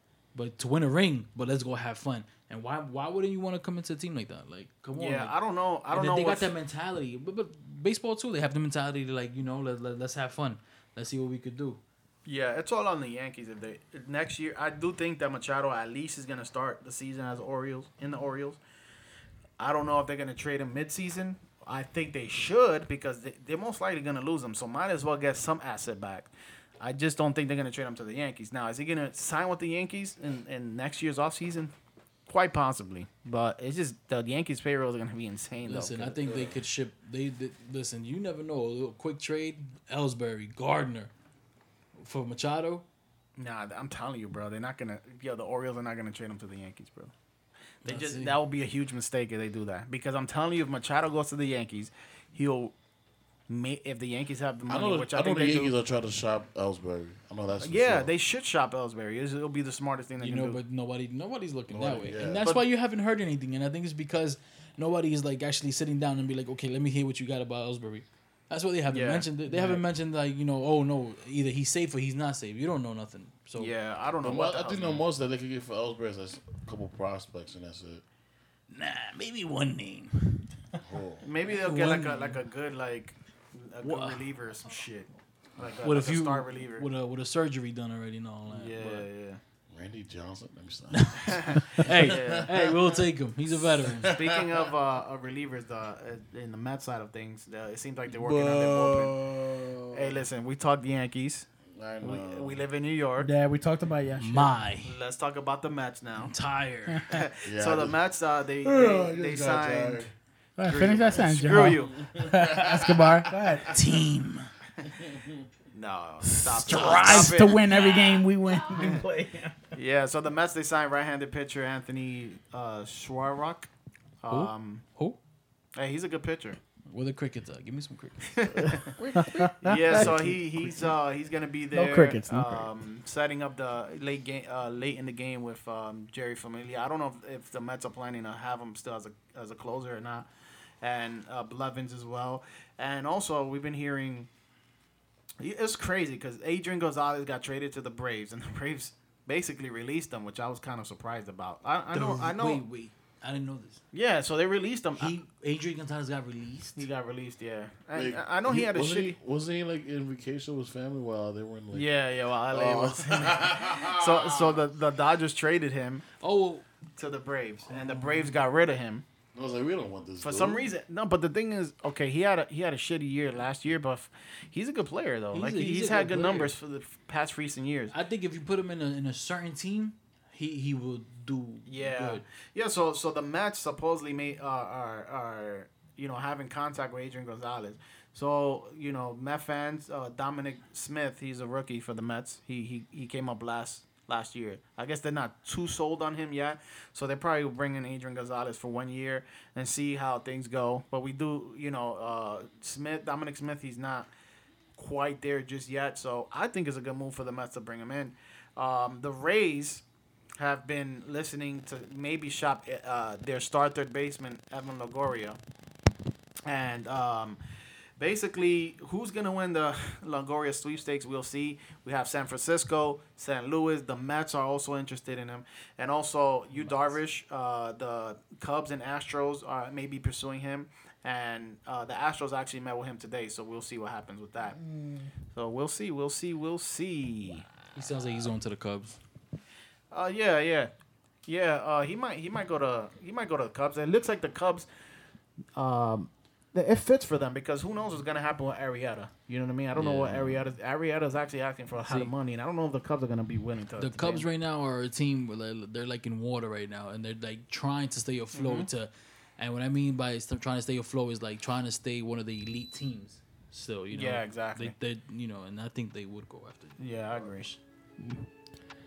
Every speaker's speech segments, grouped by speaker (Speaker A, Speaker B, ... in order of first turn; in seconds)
Speaker A: 0.3-5.3, 5.9-11.8, 35.6-41.1, 42.0-42.9, 47.9-48.4, 60.2-73.7, 78.7-80.5, 81.5-82.4, 83.8-84.2, 85.8-89.1, 90.9-94.1, 104.2-104.9, 106.2-107.2, 113.7-114.5, 116.5-118.2, 124.3-125.2, 126.9-128.9, 129.9-130.2, 151.9-153.8, 155.0-156.9, 166.2-166.7, 167.7-168.3, 175.3-176.5, 177.9-182.2, 226.6-226.9, 237.7-239.0, 249.7-250.4, 251.8-252.1, 253.8-267.6
Speaker B: 5.0-6.5, 12.3-18.6, 19.6-31.7, 32.3-36.2, 43.4-47.1, 47.8-52.8, 53.5-55.7, 57.6-60.6, 68.9-69.8, 73.6-75.0, 81.2-86.9, 88.5-89.4, 91.3-92.5, 94.1-99.2, 99.9-101.5, 102.0-103.3, 104.8-106.3, 107.1-112.0, 115.7-117.6, 118.7-119.0, 119.7-123.7, 124.2-124.8, 125.8-126.6, 128.3-129.1, 129.6-140.3, 140.8-144.3, 145.4-152.6, 153.9-155.1, 156.8-159.2, 161.7-166.1, 167.0-169.1, 170.2-177.9, 181.7-204.1, 204.8-209.8, 210.4-215.4, 216.5-217.4, 218.0-234.6, 235.3-237.5, 239.9-240.7, 241.3-244.7, 245.6-254.2, 258.3-258.7, 263.9-264.7, 266.8-267.5
Speaker C: 36.2-36.6, 54.7-58.1, 61.7-62.4, 74.2-78.0, 80.8-81.3, 89.7-93.0, 93.6-94.7, 98.1-100.2, 101.7-102.6, 107.4-108.0, 108.6-110.1, 111.1-113.8, 114.8-115.5, 157.9-161.9, 162.5-164.7, 169.3-170.7
Speaker D: 103.2-104.5, 110.6-113.7, 116.2-119.5, 128.7-130.9, 131.7-132.7, 234.5-235.1, 237.2-238.0, 268.0-268.2